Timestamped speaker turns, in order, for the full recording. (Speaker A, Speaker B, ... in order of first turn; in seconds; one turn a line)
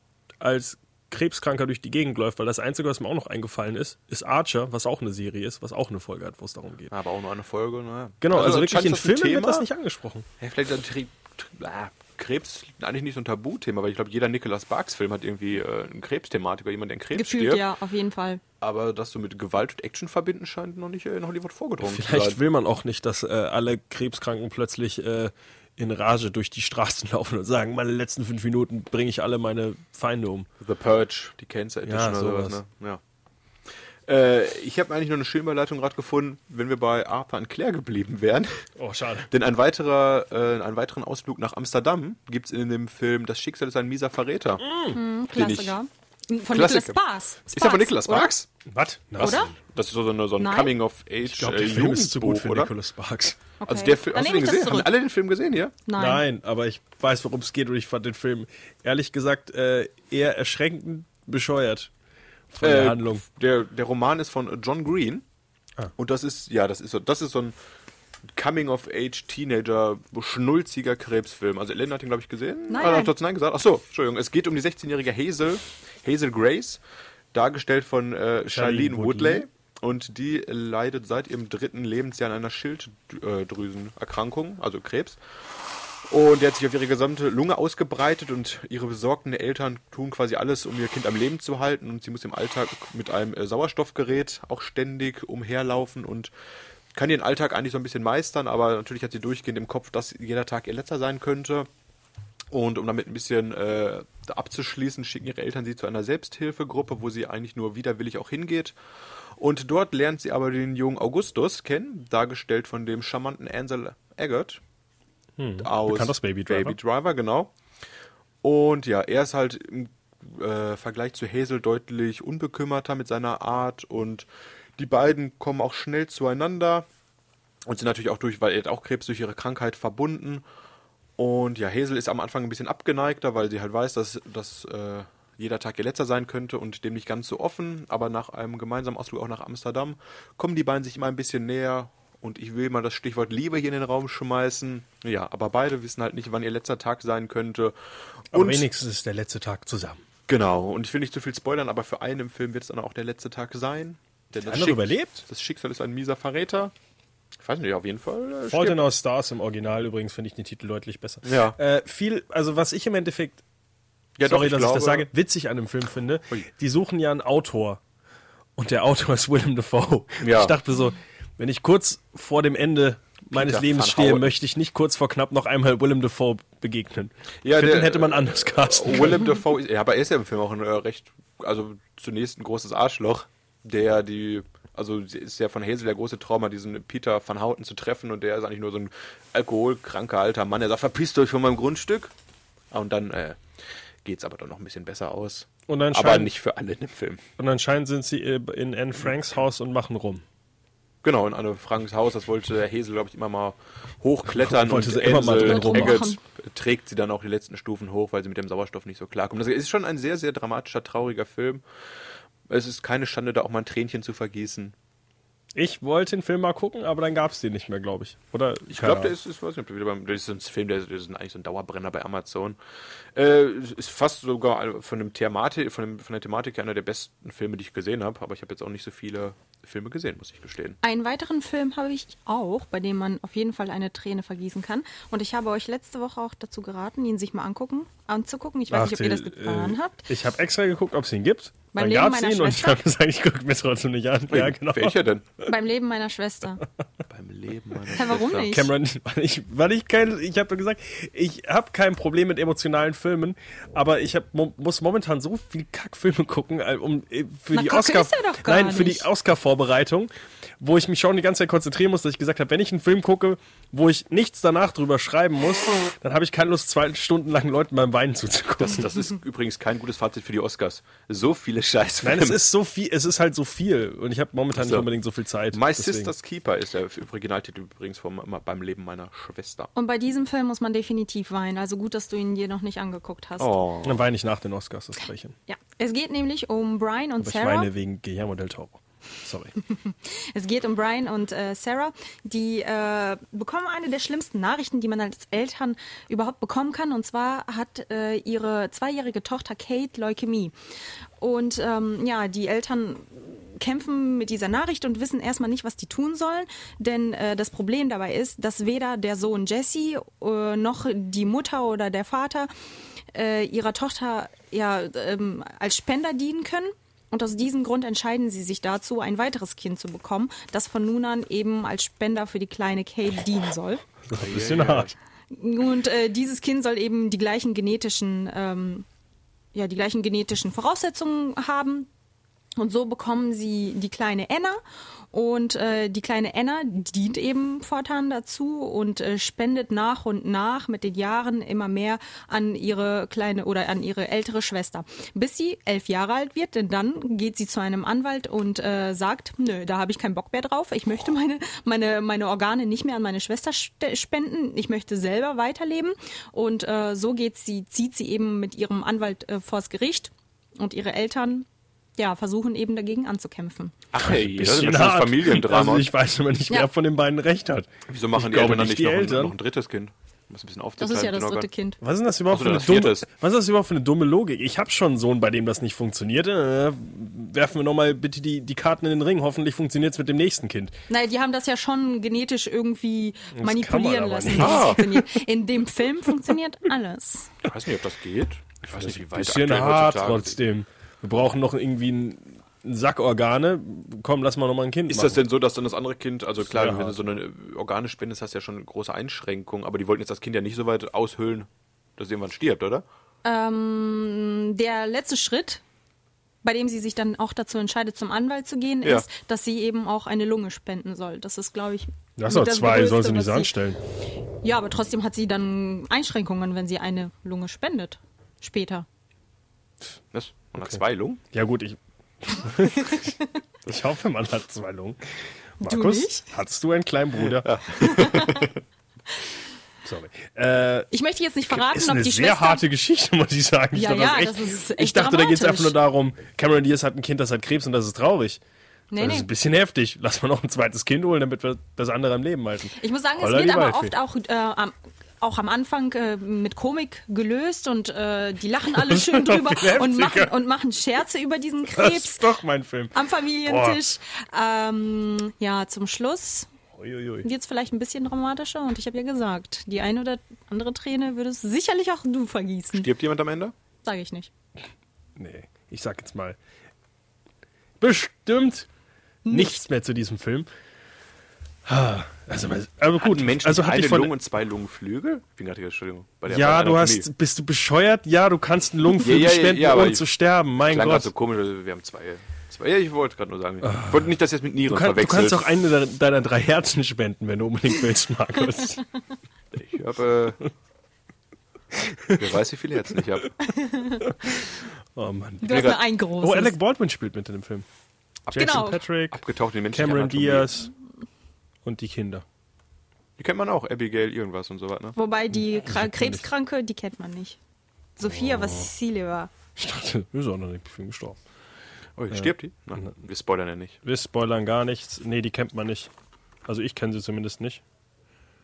Speaker A: 0.4-6.9
Speaker B: 6.9-9.7
Speaker A: 8.2-10.3
Speaker B: 10.4-17.6
Speaker C: 17.1-18.4
Speaker B: 18.6-22.4
Speaker A: 21.8-30.5
Speaker B: 30.6-33.0
Speaker A: 31.9-32.6
Speaker B: 33.7-38.6
Speaker A: 38.8-39.3
Speaker B: 39.3-44.6
Speaker A: 44.6-45.0
Speaker C: 44.9-48.3
Speaker B: 45.3-45.8
Speaker B: 46.5-47.0
Speaker B: 47.5-48.5
Speaker A: 48.7-49.5
Speaker B: 49.1-52.7
Speaker C: 49.2-49.5
Speaker C: 50.4-50.7
Speaker A: 51.2-53.4
Speaker C: 53.6-54.9
Speaker B: 53.7-55.8
Speaker C: 55.9-56.2
Speaker A: 56.0-61.9
Speaker A: 62.5-63.2
Speaker B: 62.6-65.2
Speaker B: 66.0-67.5
Speaker B: 68.3-76.8
Speaker C: 72.7-73.1
Speaker B: 77.3-96.3
Speaker A: 78.5-79.5
Speaker B: 96.9-101.7
Speaker B: 102.5-114.6
Speaker A: 115.4-116.8
Speaker B: 115.6-117.5
Speaker B: 118.4-126.9
Speaker B: 127.7-130.4
Speaker B: 131.2-148.7
Speaker A: 148.3-150.0
Speaker B: 150.3-156.7
Speaker A: 154.5-155.2
Speaker B: 157.4-158.9
Speaker A: 158.5-163.4
Speaker B: 161.2-161.6
Speaker B: 164.2-165.1
Speaker A: 164.2-167.8
Speaker A: 168.6-179.3
Speaker B: 170.2-170.6
Speaker B: 173.3-174.3
Speaker B: 177.4-192.1
Speaker B: 192.7-197.2
Speaker A: 195.7-196.3
Speaker A: 197.4-200.2
Speaker B: 201.0-211.6
Speaker A: 204.3-206.0
Speaker C: 205.3-206.2
Speaker B: 212.5-214.8
Speaker A: 215.6-219.1
Speaker B: 218.7-222.6
Speaker B: 223.1-230.8
Speaker C: 230.8-240.0
Speaker A: 238.7-245.0
Speaker C: 241.7-242.9
Speaker B: 244.3-245.3
Speaker C: 245.4-246.6
Speaker B: 247.1-248.6
Speaker C: 247.9-248.7
Speaker A: 248.5-268.9
Speaker C: 257.5-259.1
Speaker B: 268.6-272.4
Speaker A: 272.0-276.1
Speaker B: 274.5-274.9
Speaker B: 275.5-279.7
Speaker C: 279.8-283.5
Speaker B: 283.4-284.0
Speaker A: 283.8-285.3
Speaker C: 285.5-287.7
Speaker A: 287.2-289.5
Speaker C: 289.7-300.5
Speaker C: 301.2-312.5
Speaker C: 313.1-323.9
Speaker A: 324.1-324.9
Speaker B: 324.1-324.9
Speaker C: 325.3-328.9
Speaker C: 329.5-331.9
Speaker C: 332.6-334.6
Speaker C: 335.1-363.8
Speaker B: 363.9-365.9
Speaker A: 364.0-369.3
Speaker B: 367.9-371.5
Speaker C: 370.8-371.8
Speaker A: 371.8-380.8
Speaker B: 372.3-373.1
Speaker C: 380.9-387.4
Speaker A: 383.3-384.9
Speaker B: 384.4-384.8
Speaker B: 387.4-390.4
Speaker A: 388.7-395.2
Speaker B: 394.9-402.9
Speaker A: 396.4-396.9
Speaker C: 403.2-405.6
Speaker C: 406.4-413.5
Speaker A: 412.2-413.8
Speaker C: 414.3-418.9
Speaker B: 420.1-421.2
Speaker A: 421.3-423.1
Speaker C: 422.9-423.2
Speaker A: 423.7-427.5
Speaker C: 425.6-426.2
Speaker B: 427.4-428.6
Speaker C: 427.8-428.5
Speaker A: 429.9-430.9
Speaker C: 430.9-432.6
Speaker A: 431.5-438.4
Speaker C: 433.7-435.7
Speaker C: 438.9-439.3
Speaker A: 439.0-443.9
Speaker C: 442.8-452.2
Speaker A: 448.9-450.3
Speaker A: 451.8-452.9
Speaker C: 452.9-456.5
Speaker A: 453.5-453.8
Speaker A: 456.8-457.3
Speaker C: 457.2-462.9
Speaker B: 462.7-463.5
Speaker C: 463.9-464.3
Speaker A: 465.2-466.4
Speaker A: 467.8-468.7
Speaker C: 469.3-469.6
Speaker A: 469.3-470.5
Speaker A: 471.7-474.1
Speaker B: 473.0-477.1
Speaker A: 476.3-481.1
Speaker B: 479.0-480.1
Speaker B: 480.6-485.5
Speaker A: 483.6-484.1
Speaker A: 484.7-488.8
Speaker B: 489.5-490.4
Speaker A: 491.9-492.2
Speaker B: 492.2-493.3
Speaker C: 493.4-494.1
Speaker A: 494.1-495.7
Speaker C: 495.4-496.6
Speaker B: 495.5-495.8
Speaker A: 496.2-497.6
Speaker B: 498.3-500.5
Speaker A: 498.3-499.2
Speaker C: 498.3-498.8
Speaker A: 499.7-500.7
Speaker A: 501.6-502.2
Speaker B: 503.2-505.0
Speaker C: 505.0-507.4
Speaker A: 505.3-506.2
Speaker C: 508.0-509.3
Speaker A: 508.0-508.7
Speaker A: 509.6-511.2
Speaker B: 512.0-513.8
Speaker A: 512.1-513.0
Speaker A: 513.8-515.9
Speaker A: 516.5-517.6